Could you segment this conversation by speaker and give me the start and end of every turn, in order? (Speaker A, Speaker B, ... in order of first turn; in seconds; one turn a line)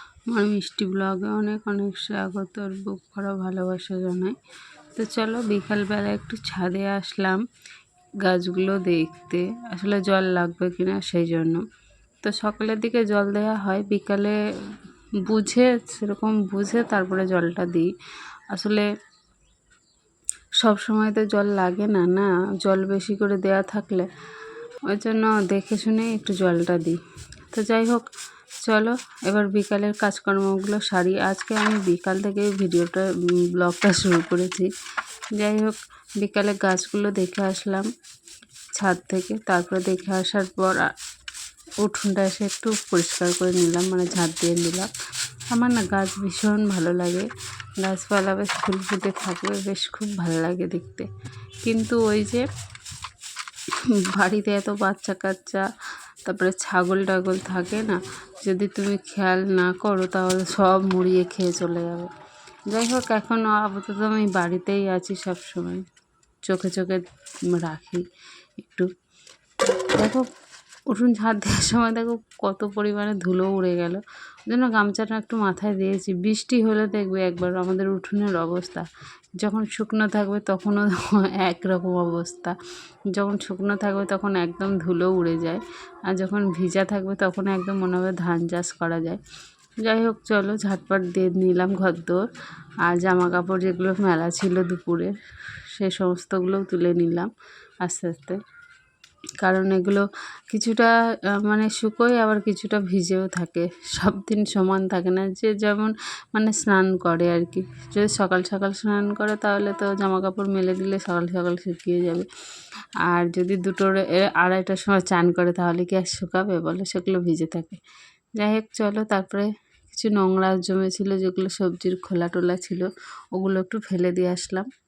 Speaker A: 0.3-4.3
Speaker A: 5.0-7.4
Speaker A: 8.2-11.6
Speaker A: 12.2-14.4
Speaker A: 15.2-17.9
Speaker A: 18.5-18.9
Speaker A: 20.6-24.1
Speaker A: 24.9-27.0
Speaker A: 27.5-28.1
Speaker A: 28.6-34.7
Speaker A: 35.4-37.9
Speaker A: 38.7-40.9
Speaker A: 41.8-44.9
Speaker A: 45.5-47.3
Speaker A: 47.8-51.1
Speaker A: 51.6-52.5
Speaker A: 54.0-55.7
Speaker A: 56.2-62.1
Speaker A: 62.7-65.8
Speaker A: 66.5-68.0
Speaker A: 68.6-68.9
Speaker A: 69.9-70.3
Speaker A: 70.9-78.9
Speaker A: 79.4-82.5
Speaker A: 83.1-89.2
Speaker A: 89.8-92.3
Speaker A: 92.8-95.1
Speaker A: 95.7-97.3
Speaker A: 97.8-98.4
Speaker A: 99.4-112.3
Speaker A: 113.0-117.8
Speaker A: 118.4-124.7